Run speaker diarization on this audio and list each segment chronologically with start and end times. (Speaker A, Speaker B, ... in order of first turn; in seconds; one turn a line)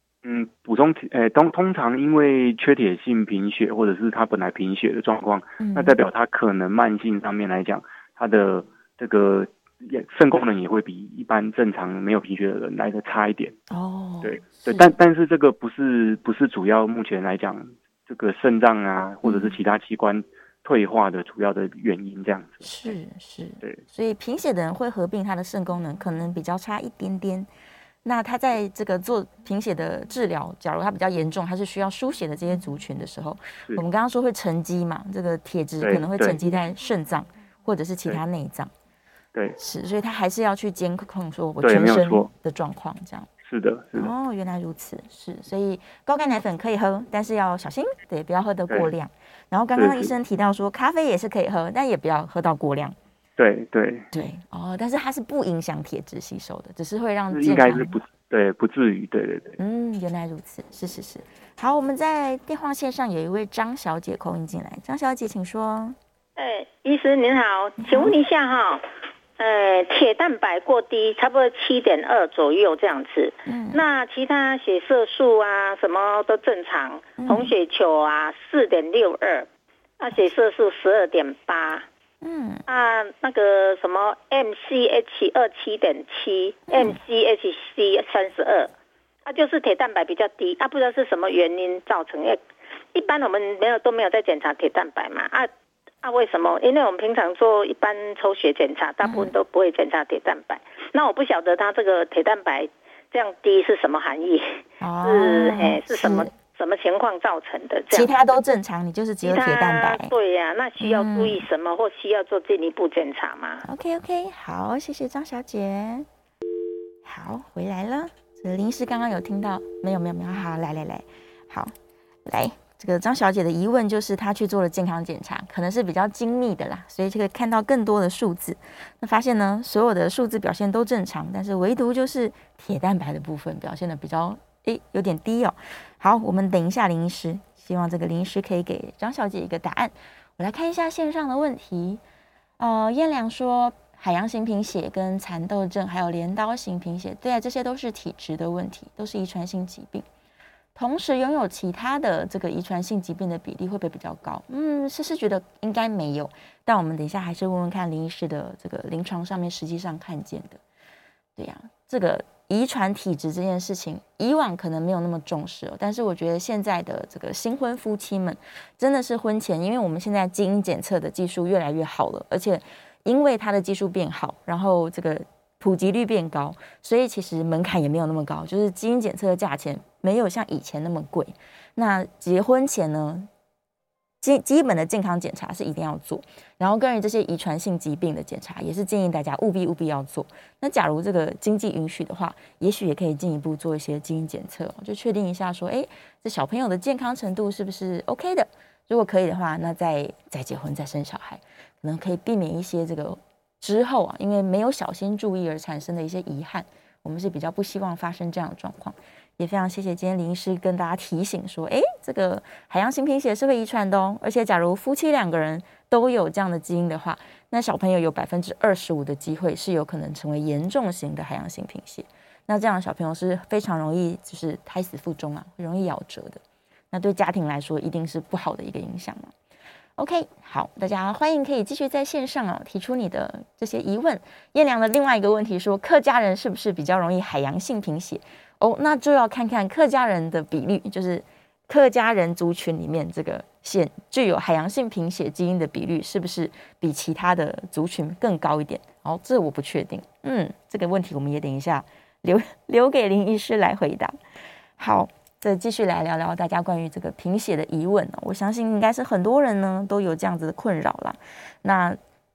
Speaker A: 0.2-13.6
Speaker B: 5.6-6.0
Speaker B: 13.7-14.9
Speaker A: 14.2-22.9
Speaker B: 19.2-19.6
Speaker B: 22.6-27.5
Speaker B: 28.0-38.7
Speaker A: 35.8-36.4
Speaker B: 39.6-43.3
Speaker A: 41.6-42.3
Speaker A: 43.4-44.1
Speaker B: 43.9-53.0
Speaker A: 49.7-50.1
Speaker A: 53.4-54.1
Speaker B: 54.1-58.0
Speaker A: 57.3-59.6
Speaker B: 59.6-66.0
Speaker C: 66.3-68.8
Speaker B: 67.8-68.1
Speaker C: 69.4-79.5
Speaker B: 73.5-73.8
Speaker B: 77.2-77.5
Speaker C: 80.0-81.8
Speaker B: 82.2-82.6
Speaker C: 82.7-88.7
Speaker B: 86.7-87.0
Speaker C: 89.2-92.4
Speaker C: 92.9-95.5
Speaker C: 96.0-104.4
Speaker B: 99.0-99.3
Speaker B: 104.8-106.3
Speaker C: 105.0-108.1
Speaker B: 107.9-110.1
Speaker C: 109.2-113.6
Speaker B: 110.8-111.4
Speaker B: 113.6-116.0
Speaker B: 117.0-121.7
Speaker B: 122.2-142.0
Speaker B: 142.6-150.0
Speaker B: 150.7-160.6
Speaker B: 161.4-183.3
Speaker B: 184.2-226.4
Speaker B: 226.9-229.3
Speaker B: 230.0-254.2
Speaker B: 254.8-262.0